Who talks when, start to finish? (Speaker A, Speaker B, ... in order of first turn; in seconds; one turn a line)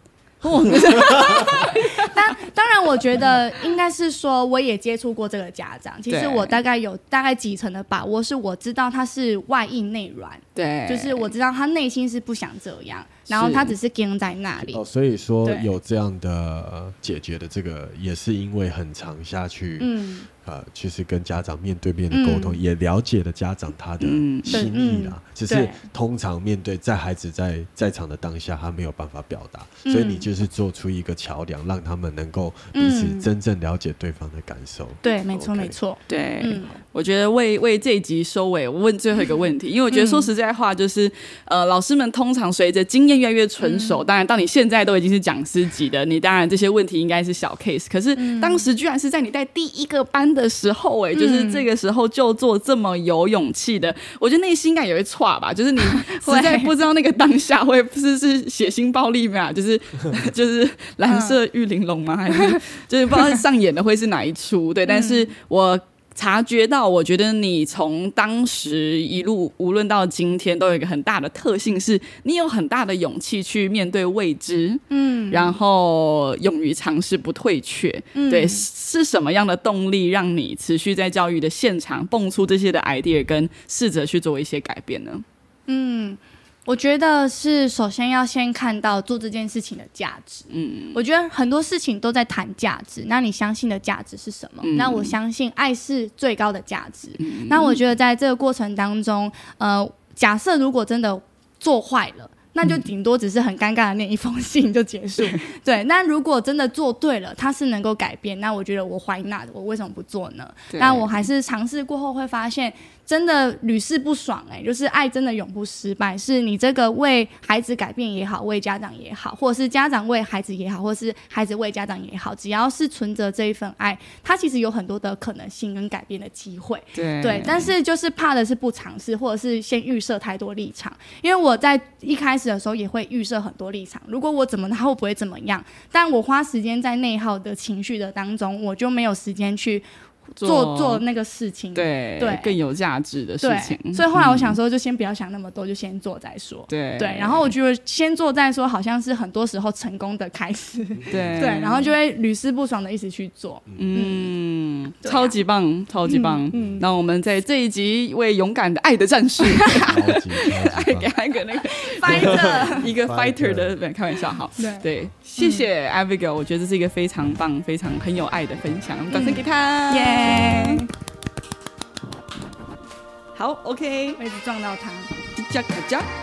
Speaker A: 0.4-2.2
Speaker B: 1.1-14.8
Speaker A: 6.1-6.6
Speaker A: 10.5-11.3
Speaker A: 13.3-13.7
Speaker C: 14.6-35.8
Speaker B: 15.4-15.7
Speaker B: 19.8-20.2
Speaker B: 22.1-22.6
Speaker A: 24.0-24.7
Speaker B: 24.5-25.8
Speaker B: 29.8-30.3
Speaker B: 32.7-33.3
Speaker B: 35.0-36.7
Speaker A: 36.1-85.2
Speaker B: 39.9-40.3
Speaker B: 43.6-44.0
Speaker B: 48.1-48.7
Speaker B: 51.1-51.6
Speaker B: 55.9-56.7
Speaker B: 61.1-61.4
Speaker B: 64.9-65.3
Speaker B: 74.9-75.6
Speaker B: 78.1-78.7
Speaker B: 85.7-139.9
Speaker A: 90.5-91.0
Speaker A: 94.6-95.2
Speaker A: 97.2-97.8
Speaker A: 110.7-111.2
Speaker A: 126.9-127.7
Speaker A: 140.4-141.0
Speaker B: 140.4-142.6
Speaker A: 141.7-144.6
Speaker B: 143.4-154.3
Speaker A: 146.7-147.5
Speaker C: 150.9-151.5
Speaker A: 151.1-151.9
Speaker A: 153.8-170.8
Speaker B: 155.0-155.4
Speaker B: 156.1-156.4
Speaker C: 156.5-156.9
Speaker B: 159.4-160.2
Speaker C: 159.8-161.1
Speaker B: 161.6-162.9
Speaker C: 162.1-163.8
Speaker B: 164.6-164.8
Speaker B: 165.4-165.7
Speaker B: 169.1-170.9
Speaker A: 173.3-174.2
Speaker B: 174.2-175.1
Speaker A: 175.3-176.1